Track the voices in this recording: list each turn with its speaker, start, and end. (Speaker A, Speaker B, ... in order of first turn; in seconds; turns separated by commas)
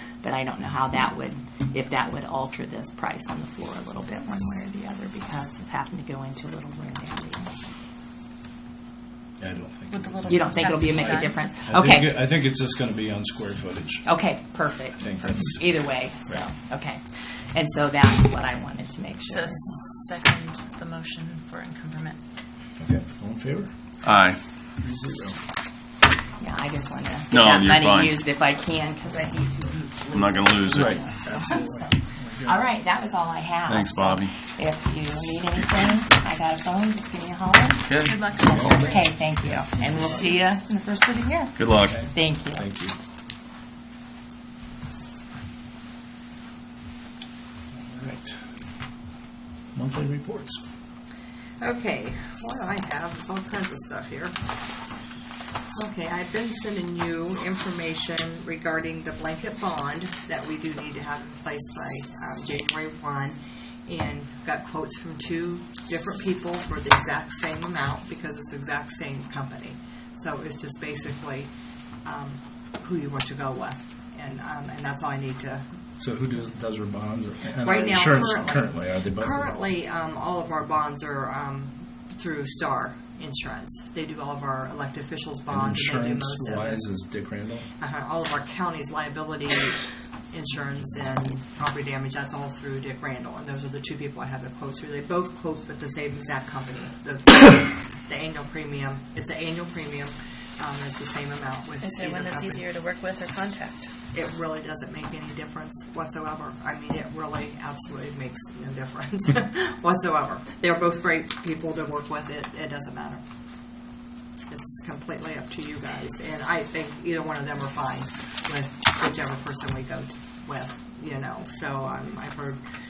Speaker A: 0.2-7.6, Speaker B: 9.4-14.1, Speaker C: 9.9-11.4, Speaker A: 10.3-12.3, Speaker A: 14.1-19.8, Speaker B: 15.0-15.7, Speaker C: 19.3-22.2, Speaker B: 22.8-23.7, Speaker D: 24.0-24.4, Speaker B: 24.8-25.4, Speaker A: 26.4-37.9, Speaker D: 27.3-28.1, Speaker D: 30.1-31.0, Speaker B: 30.7-32.6, Speaker D: 33.7-34.3, Speaker D: 37.9-38.7, Speaker C: 38.0-39.1, Speaker B: 38.5-39.0, Speaker A: 38.6-42.6, Speaker D: 41.6-42.0, Speaker B: 41.8-43.0, Speaker B: 47.7-48.4, Speaker B: 49.7-50.6, Speaker E: 51.6-54.4, Speaker E: 55.7-71.5, Speaker E: 72.0-75.6, Speaker B: 76.0-79.5, Speaker E: 77.6-86.8, Speaker B: 85.5-87.7, Speaker E: 87.8-102.7, Speaker C: 101.8-103.9, Speaker E: 104.1-113.2, Speaker E: 114.5-122.6